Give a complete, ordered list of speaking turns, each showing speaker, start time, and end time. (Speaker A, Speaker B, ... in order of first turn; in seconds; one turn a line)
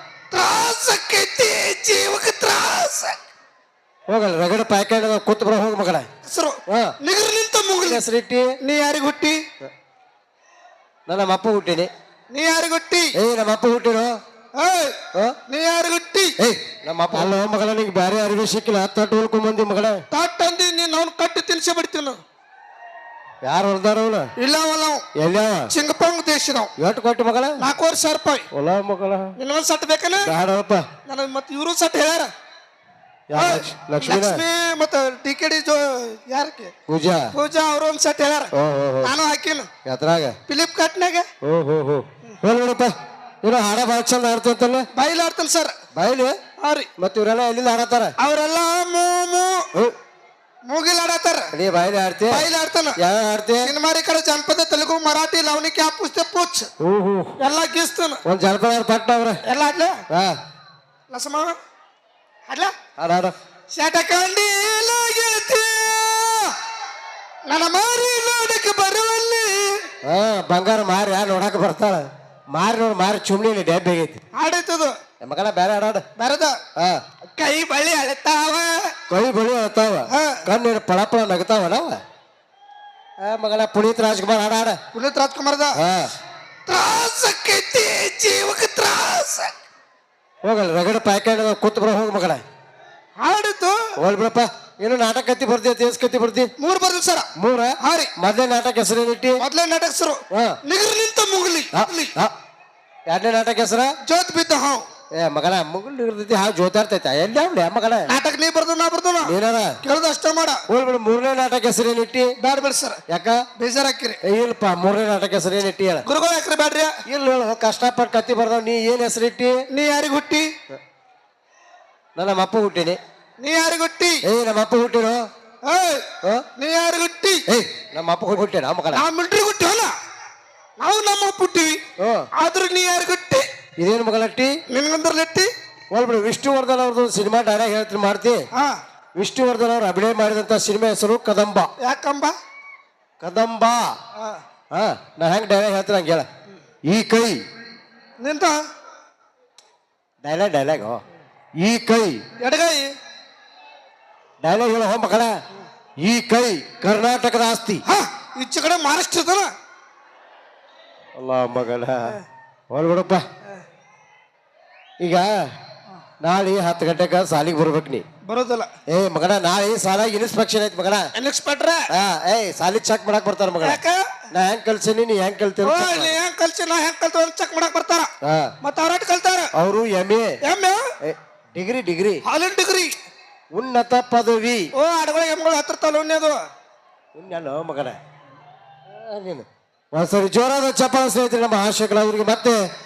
Speaker A: 0.3-3.2
Speaker B: 4.1-6.1
Speaker A: 6.3-8.0
Speaker B: 6.7-6.9
Speaker B: 7.8-8.6
Speaker A: 8.6-9.4
Speaker B: 11.1-11.9
Speaker A: 12.3-13.2
Speaker B: 13.2-14.1
Speaker A: 14.6-16.4
Speaker B: 16.4-20.0
Speaker A: 20.1-22.2
Speaker B: 23.4-24.3
Speaker A: 24.4-25.1
Speaker B: 25.1-25.7
Speaker A: 25.7-26.7
Speaker B: 26.8-27.6
Speaker A: 27.6-28.5
Speaker B: 28.5-29.3
Speaker A: 29.4-30.3
Speaker B: 30.2-30.9
Speaker A: 31.1-32.3
Speaker B: 33.3-34.4
Speaker A: 33.3-36.7
Speaker B: 36.9-37.3
Speaker A: 37.3-38.5
Speaker B: 38.5-39.1
Speaker A: 39.0-39.7
Speaker B: 39.9-40.4
Speaker A: 40.5-41.3
Speaker B: 41.4-44.9
Speaker A: 45.0-45.7
Speaker B: 45.9-46.4
Speaker A: 46.6-46.9
Speaker B: 47.0-48.1
Speaker A: 48.2-49.7
Speaker A: 50.7-51.5
Speaker B: 51.5-53.7
Speaker A: 52.3-53.0
Speaker A: 53.6-56.7
Speaker B: 56.8-57.4
Speaker A: 57.4-58.2
Speaker B: 58.2-59.4
Speaker A: 59.5-60.0
Speaker B: 60.1-60.4
Speaker A: 61.1-61.5
Speaker B: 63.0-63.3
Speaker A: 63.7-66.5
Speaker A: 67.5-69.9
Speaker B: 70.0-74.2
Speaker A: 74.4-74.9
Speaker B: 75.2-76.0
Speaker A: 76.2-76.6
Speaker B: 76.8-77.0
Speaker A: 77.4-78.9
Speaker B: 79.1-82.0
Speaker A: 80.1-80.5
Speaker B: 83.2-84.8
Speaker A: 84.9-85.8
Speaker B: 85.8-86.1
Speaker A: 86.7-89.5
Speaker B: 90.4-92.4
Speaker A: 93.2-93.9
Speaker B: 94.0-96.5
Speaker A: 96.6-97.3
Speaker B: 97.4-99.4
Speaker A: 97.8-98.1
Speaker A: 99.4-102.1
Speaker B: 100.3-100.6
Speaker B: 101.7-102.3
Speaker B: 103.1-103.9
Speaker A: 104.0-104.8
Speaker B: 105.1-108.1
Speaker A: 108.1-110.6
Speaker B: 109.2-109.8
Speaker B: 110.7-112.3
Speaker A: 112.4-113.0
Speaker B: 113.1-113.4
Speaker A: 113.6-114.2
Speaker B: 114.2-116.1
Speaker A: 116.1-116.9
Speaker B: 117.1-119.6
Speaker A: 119.7-120.5
Speaker B: 122.2-123.0
Speaker A: 123.4-124.2
Speaker B: 124.2-125.2
Speaker A: 125.7-127.4
Speaker B: 127.5-129.0
Speaker A: 128.9-129.9
Speaker A: 130.8-131.8
Speaker B: 132.0-132.3
Speaker A: 132.4-133.4
Speaker B: 133.8-134.6
Speaker A: 134.7-135.5
Speaker B: 135.9-138.4
Speaker B: 139.2-141.7
Speaker A: 141.8-142.3
Speaker B: 143.2-143.9
Speaker B: 144.7-146.3
Speaker B: 146.9-147.4
Speaker A: 148.2-148.5
Speaker B: 150.2-151.0
Speaker B: 151.6-152.2
Speaker A: 152.4-152.9
Speaker B: 154.4-155.3
Speaker B: 156.0-157.8
Speaker A: 157.8-159.5
Speaker B: 161.2-163.2
Speaker B: 165.0-165.3
Speaker B: 166.2-168.0
Speaker A: 168.3-168.7
Speaker B: 168.9-171.1
Speaker A: 171.2-171.9
Speaker B: 171.9-173.8
Speaker A: 173.6-174.2
Speaker B: 174.3-176.2
Speaker A: 175.6-178.1
Speaker B: 178.2-178.5
Speaker A: 178.6-179.5
Speaker B: 179.6-180.4
Speaker A: 180.4-180.8
Speaker B: 181.0-182.2
Speaker A: 182.2-182.9
Speaker B: 183.5-184.7
Speaker A: 184.8-186.4
Speaker B: 187.2-188.0
Speaker B: 188.9-192.6